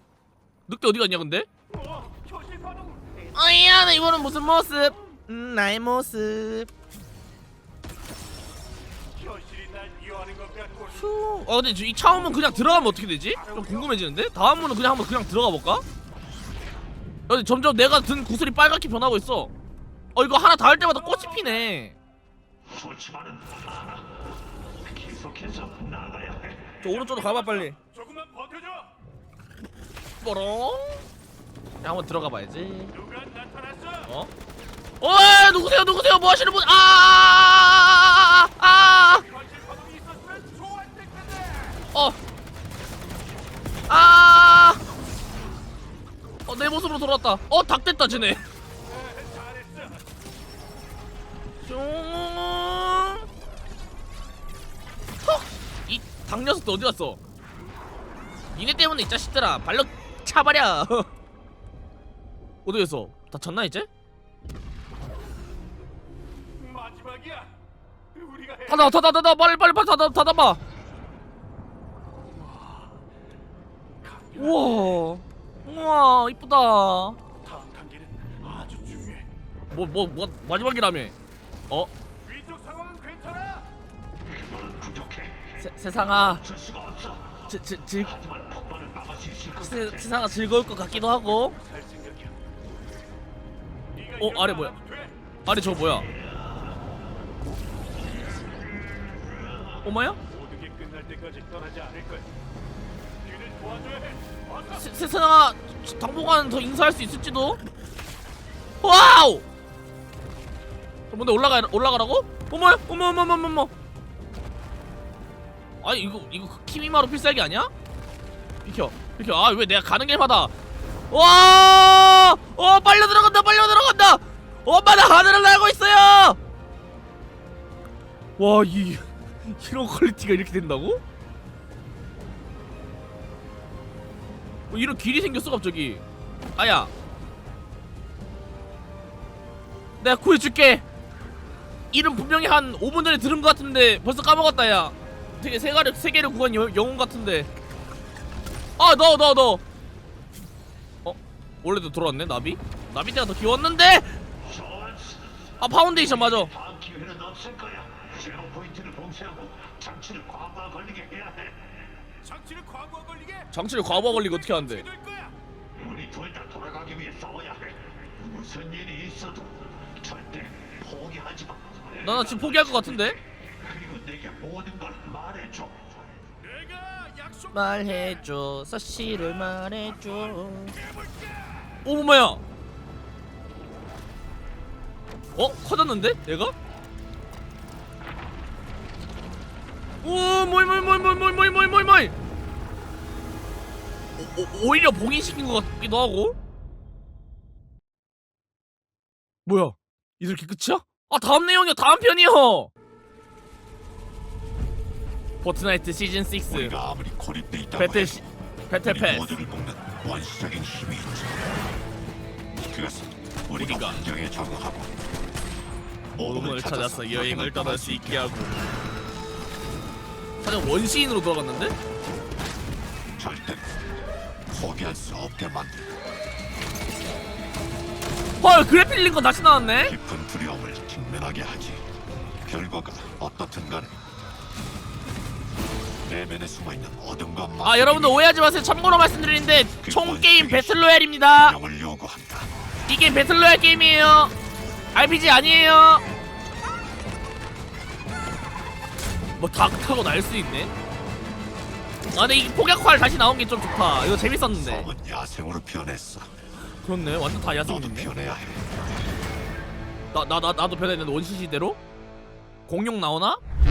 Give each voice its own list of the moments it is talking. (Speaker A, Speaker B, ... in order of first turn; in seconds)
Speaker A: 0.7-1.5, 3.4-6.7, 10.9-15.8, 17.3-19.5, 20.1-22.0, 26.8-27.8, 30.2-31.1, 31.8-32.9, 34.1-34.3, 35.0-39.3, 43.9-44.8, 46.5-48.4, 51.6-53.3, 55.2-57.2, 58.5-61.1, 62.6-63.9, 68.7-70.6, 74.4-77.2, 79.7-81.2, 85.6-86.4, 87.5-88.1, 89.6-91.5, 94.2-94.8, 95.5-96.1, 99.8-100.2, 104.7-107.6, 108.8-109.4, 111.1-113.7, 115.8-117.7, 118.7-120.5, 121.1-126.4, 128.4-131.0, 134.7-136.0, 136.6-136.9, 140.0-140.8, 141.9-147.5, 148.8-149.6, 151.0-154.2, 155.6-156.5, 163.5-164.8, 172.0-173.2, 177.5-180.8, 181.8-182.4, 185.3-186.5, 190.0-192.1, 194.2-196.3, 199.5-202.7, 205.4-206.7, 207.8-209.4, 213.6-214.1, 216.2-218.6, 220.4-221.7, 228.4-229.9, 237.6-241.6, 242.9-244.3, 244.9-246.0, 249.4-250.7, 252.1-254.9, 256.8-258.1, 260.1-261.8, 262.7-263.4
Speaker B: 1.7-3.3, 9.2-11.1, 12.1-14.0, 20.9-21.7, 26.8-28.9, 32.9-34.1, 39.2-41.9, 48.9-50.1, 66.6-67.5, 68.2-69.0, 72.3-73.0, 74.0-75.0, 77.4-79.3, 82.2-83.7, 91.4-92.4, 93.9-95.2, 100.3-102.3, 103.2-104.9, 162.2-163.5, 164.1-165.3, 176.4-178.2, 179.1-181.7
Speaker C: 22.7-26.8, 84.3-90.2, 96.2-96.5, 99.1-99.8, 154.4-161.7, 165.8-175.9, 206.5-208.2, 208.8-211.4, 212.6-214.9, 216.1-218.4, 223.2-223.7, 224.5-225.9, 229.8-231.9, 232.4-234.0, 236.0-238.3, 239.8-242.5, 254.5-256.3, 257.7-258.8